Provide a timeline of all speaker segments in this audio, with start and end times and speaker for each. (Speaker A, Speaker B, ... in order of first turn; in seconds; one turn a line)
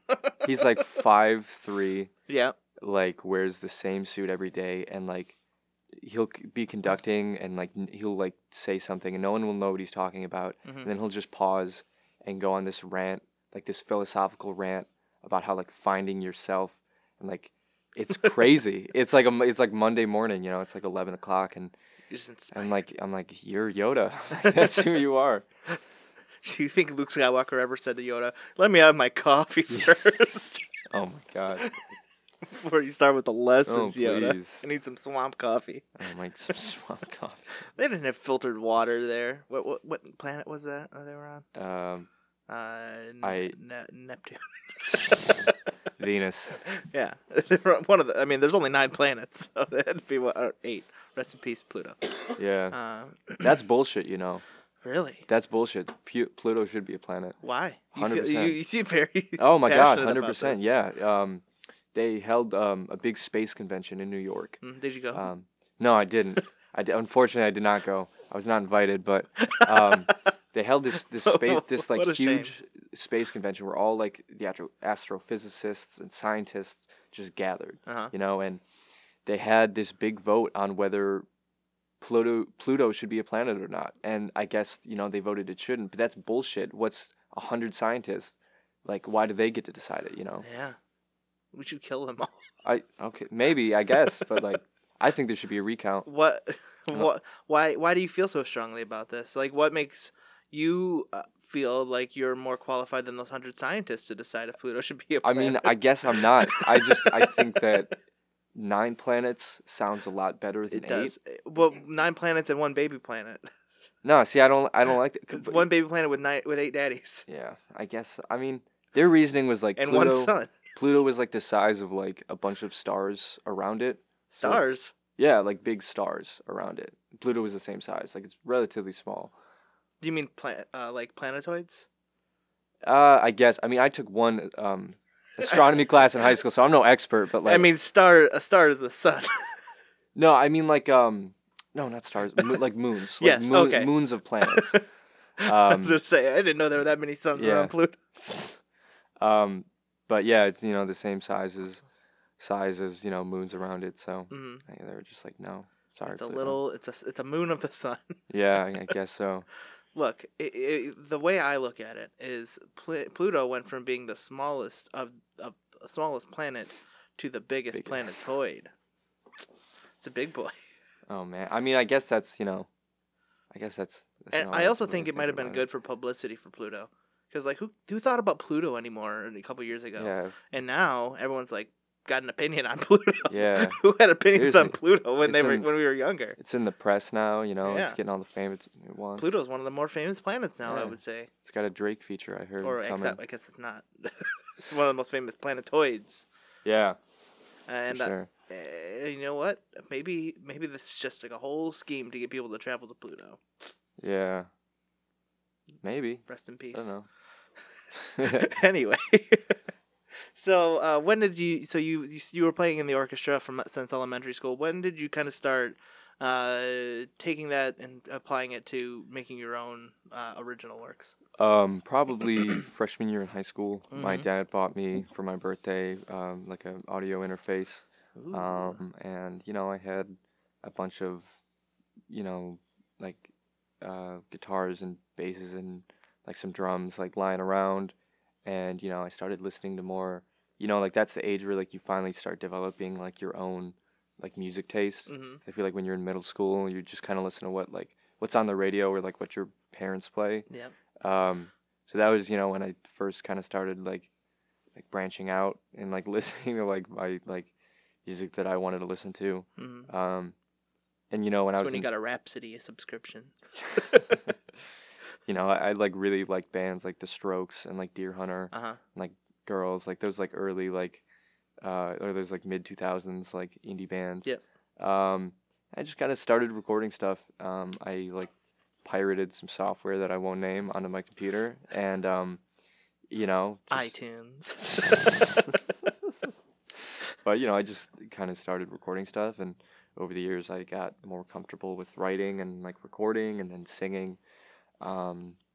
Speaker A: 0.4-2.1
Speaker B: 2.3-2.5
Speaker A: 2.8-5.3
Speaker A: 5.9-21.7
Speaker B: 10.6-10.9
Speaker B: 22.1-22.7
Speaker A: 22.5-25.4
Speaker B: 24.4-24.9
Speaker B: 26.4-30.7
Speaker A: 30.9-31.7
Speaker B: 32.4-35.9
Speaker A: 33.6-34.7
Speaker A: 36.0-37.6
Speaker B: 37.8-41.4
Speaker A: 41.5-42.1
Speaker B: 42.5-45.5
Speaker A: 43.2-43.5
Speaker A: 46.0-46.6
Speaker B: 46.7-52.2
Speaker A: 52.4-52.8
Speaker B: 52.7-53.5
Speaker A: 53.4-54.4
Speaker B: 54.8-55.2
Speaker A: 55.3-57.4
Speaker B: 57.4-60.6
Speaker A: 57.9-58.6
Speaker A: 59.4-64.6
Speaker B: 64.6-65.3
Speaker A: 65.1-78.6
Speaker B: 69.4-70.3
Speaker B: 71.2-72.5
Speaker B: 77.9-78.1
Speaker A: 79.2-81.2
Speaker A: 82.0-90.4
Speaker B: 90.4-90.8
Speaker B: 91.5-92.4
Speaker A: 92.6-96.1
Speaker B: 96.0-107.4
Speaker A: 105.2-107.9
Speaker A: 108.5-111.1
Speaker B: 110.7-113.5
Speaker A: 114.0-115.7
Speaker B: 115.3-117.2
Speaker A: 117.3-124.6
Speaker B: 119.8-120.5
Speaker B: 124.3-124.9
Speaker A: 125.2-129.3
Speaker B: 130.0-131.8
Speaker A: 132.8-137.7
Speaker B: 137.4-139.5
Speaker A: 140.1-144.8
Speaker B: 143.2-143.9
Speaker B: 144.4-144.8
Speaker B: 145.4-148.0
Speaker A: 145.4-146.0
Speaker A: 147.3-148.6
Speaker A: 149.2-151.8
Speaker A: 152.4-156.6
Speaker B: 154.3-154.6
Speaker B: 156.1-158.2
Speaker A: 158.3-159.4
Speaker B: 159.9-168.7
Speaker A: 167.7-168.0
Speaker B: 170.0-170.6
Speaker A: 171.1-172.7
Speaker A: 173.5-175.6
Speaker B: 174.3-186.4
Speaker A: 180.0-180.3
Speaker A: 183.3-183.8
Speaker A: 184.3-185.7
Speaker A: 186.3-189.3
Speaker B: 187.6-188.0
Speaker B: 189.2-191.3
Speaker A: 190.6-193.2
Speaker B: 192.6-196.2
Speaker A: 196.6-197.0
Speaker B: 197.7-203.4
Speaker A: 197.9-198.3
Speaker A: 204.0-204.5
Speaker A: 205.8-207.1
Speaker B: 206.3-206.9
Speaker A: 208.2-208.5
Speaker B: 208.2-209.6
Speaker B: 210.3-221.1
Speaker A: 221.4-231.3
Speaker B: 223.9-224.3
Speaker B: 228.2-228.8
Speaker A: 232.1-233.3
Speaker A: 233.8-250.5
Speaker B: 245.1-245.4
Speaker A: 251.0-254.1
Speaker A: 254.7-257.5
Speaker A: 258.0-260.3
Speaker B: 259.6-259.9
Speaker A: 261.1-261.9
Speaker B: 261.6-264.2
Speaker A: 263.8-264.3
Speaker A: 265.2-271.0
Speaker B: 268.5-268.8
Speaker A: 271.6-278.3
Speaker A: 278.8-282.4
Speaker A: 283.1-283.9
Speaker B: 283.7-285.2
Speaker A: 287.2-294.2
Speaker A: 294.8-295.4